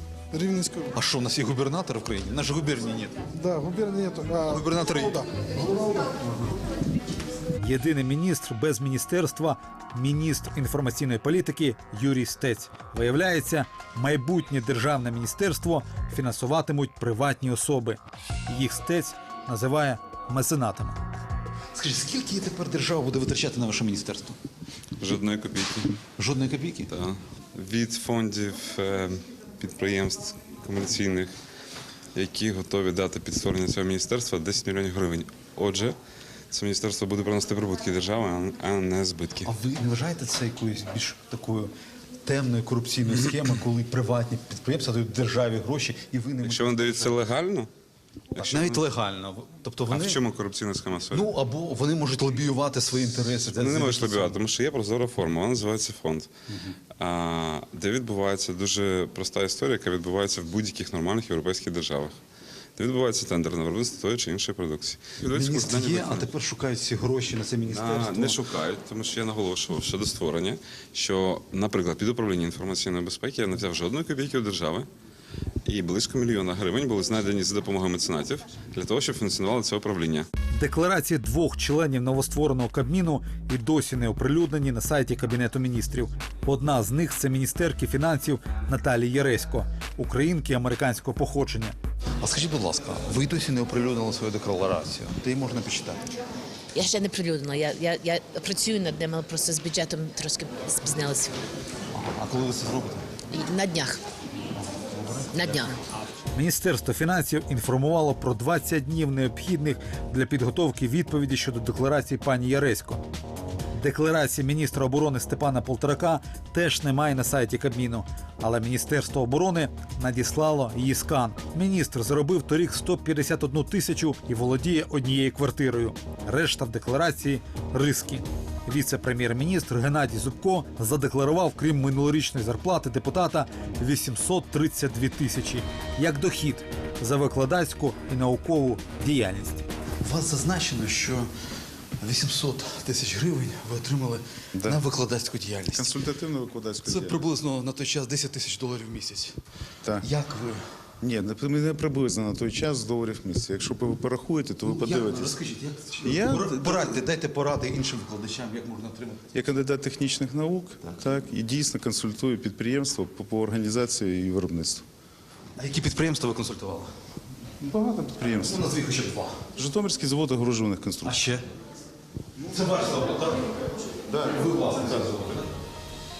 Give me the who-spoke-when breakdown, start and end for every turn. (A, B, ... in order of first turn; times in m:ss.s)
0:00.3-0:01.0 A
0:00.9-0:03.2 B
0:03.3-0:06.2 A
0:04.5-0:05.2 B
0:07.6-0:21.0 C
0:21.7-0:24.4 B
0:25.0-0:26.0 D
0:26.2-0:26.9 B
0:26.9-0:31.3 D
0:32.2-0:36.0 D
0:36.5-0:39.5 D
0:39.4-0:41.7 B
0:42.2-0:47.2 B
0:46.4-0:47.7 D
0:48.3-0:48.9 D
0:48.4-0:50.2 B
0:49.9-0:51.3 D
0:51.1-0:54.4 B
0:53.5-0:56.3 D
0:57.0-1:02.2 D
1:02.8-1:06.3 D
1:05.3-1:08.4 B
1:07.7-1:14.9 D
1:15.6-1:20.3 D
1:20.5-1:31.8 C
1:32.2-1:36.2 B
1:36.8-1:41.3 E
1:41.9-1:43.1 B
1:43.3-1:44.0 E
1:44.6-1:45.6 B
1:45.3-1:45.7 E
1:46.3-1:53.0 C
1:53.7-2:19.6 C
2:20.0-2:21.3 B
2:22.0-2:26.0 B
2:25.7-2:27.2 F
2:26.8-2:29.4 B
2:30.0-2:30.8 B
2:31.0-2:35.4 F
2:34.6-2:39.3 B
2:36.0-2:36.9 F
2:39.3-2:44.8 F
2:45.6-2:46.9 B
2:47.6-2:48.7 F
2:48.2-2:49.4 B
2:49.6-2:51.2 F
2:51.0-2:51.4 B
2:52.5-2:53.5 B
2:54.1-2:55.5 B